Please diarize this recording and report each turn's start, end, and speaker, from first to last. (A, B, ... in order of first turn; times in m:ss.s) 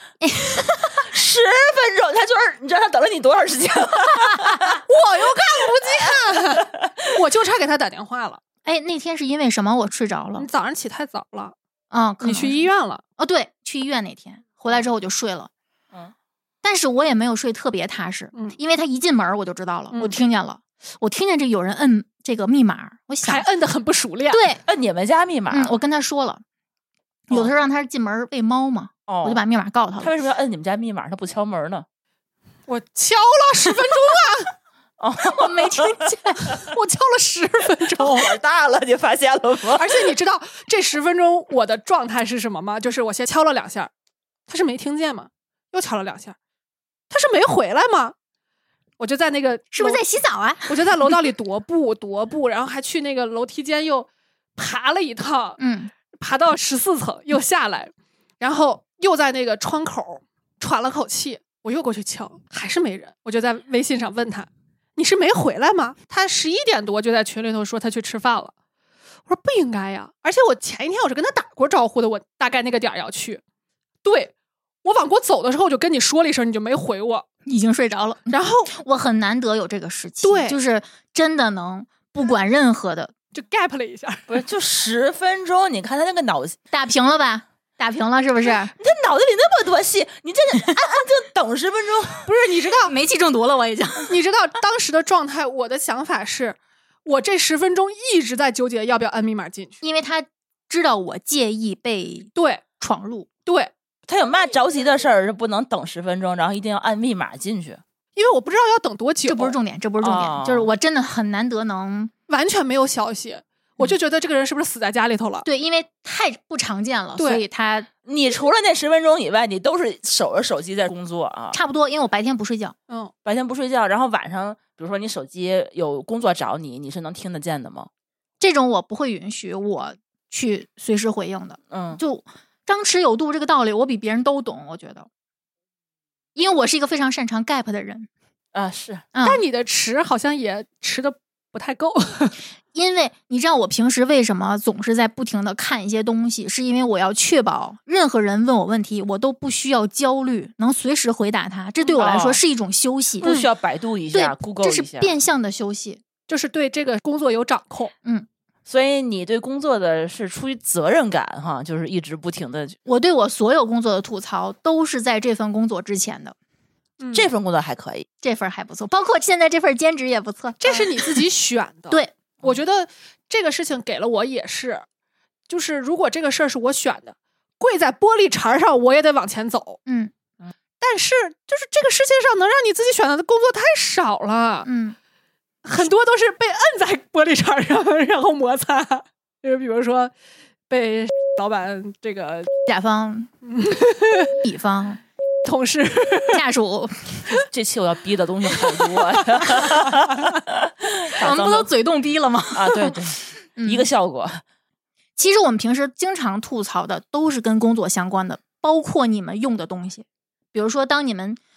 0:00.2-0:01.0 A
0:01.0-0:04.8 B
0:04.9-0:08.4 C
0:06.0-0:07.1 B
0:08.6-0:10.5 A
0:10.4-0:11.6 C
0:11.9-0:12.7 A
0:12.2-0:13.0 C
0:13.2-0:15.5 A
0:16.6-0:23.5 A
0:19.9-0:20.2 C
0:23.2-0:24.4 C
0:24.3-0:24.6 A
0:24.7-0:25.7 B
0:25.5-0:26.4 A
0:27.3-0:30.1 A
0:29.1-0:29.4 B
0:30.0-0:31.9 B
0:32.7-0:34.5 C
0:35.0-0:36.6 B
0:35.2-0:36.5 A
0:36.5-0:38.4 C
0:38.0-0:40.1 B
0:39.7-0:43.9 C
0:44.5-0:46.4 C
0:47.1-0:48.2 C
0:49.0-0:50.0 C
0:49.7-0:50.8 A
0:50.7-0:55.6 C
0:55.6-0:55.9 A
0:56.2-1:08.5 C
1:09.3-1:13.4 C
1:14.0-1:14.3 C
1:14.8-1:17.3 C
1:17.5-1:23.1 A
1:18.3-1:18.7 C
1:20.2-1:20.6 C
1:23.3-1:24.4 C
1:24.3-1:26.6 B
1:26.7-1:28.7 A
1:28.8-1:32.3 B
1:32.3-1:32.9 C
1:32.8-1:34.1 A
1:34.1-1:39.8 C
1:39.8-1:43.3 A
1:42.4-1:42.6 C
1:43.5-1:43.7 C
1:44.1-1:47.8 B
1:48.2-1:49.6 C
1:49.3-1:52.1 A
1:50.0-1:50.7 B
1:52.3-1:55.5 C
1:55.4-1:57.9 A
1:57.2-1:57.4 C
1:58.0-2:01.6 B
2:01.5-2:02.8 A
2:03.2-2:07.9 B
2:08.4-2:15.1 A
2:11.7-2:12.0 B
2:16.4-2:18.1 A
2:18.5-2:19.1 B
2:19.1-2:19.4 A
2:19.2-2:22.4 C
2:22.7-2:33.3 A
2:31.8-2:32.1 C
2:32.0-2:32.4 B
2:33.2-2:35.1 B
2:33.2-2:33.5 C
2:34.1-2:36.0 A
2:36.3-2:37.9 C
2:38.7-2:42.8 B
2:42.9-2:46.4 A
2:47.0-2:47.3 C
2:47.1-2:48.1 B
2:48.2-2:51.2 A
2:50.6-2:54.8 C
2:55.5-2:59.8 C
2:59.9-3:00.1 A
3:00.8-3:04.7 C
3:04.6-3:05.0 A
3:05.6-3:10.1 C
3:10.7-3:12.5 C
3:12.7-3:13.3 A
3:13.4-3:14.4 C
3:14.4-3:15.0 A
3:15.4-3:16.4 C
3:16.3-3:17.2 A
3:17.3-3:21.7 B
3:21.2-3:23.0 A
3:22.5-3:24.4 B
3:23.6-3:23.9 A
3:25.2-3:31.4 A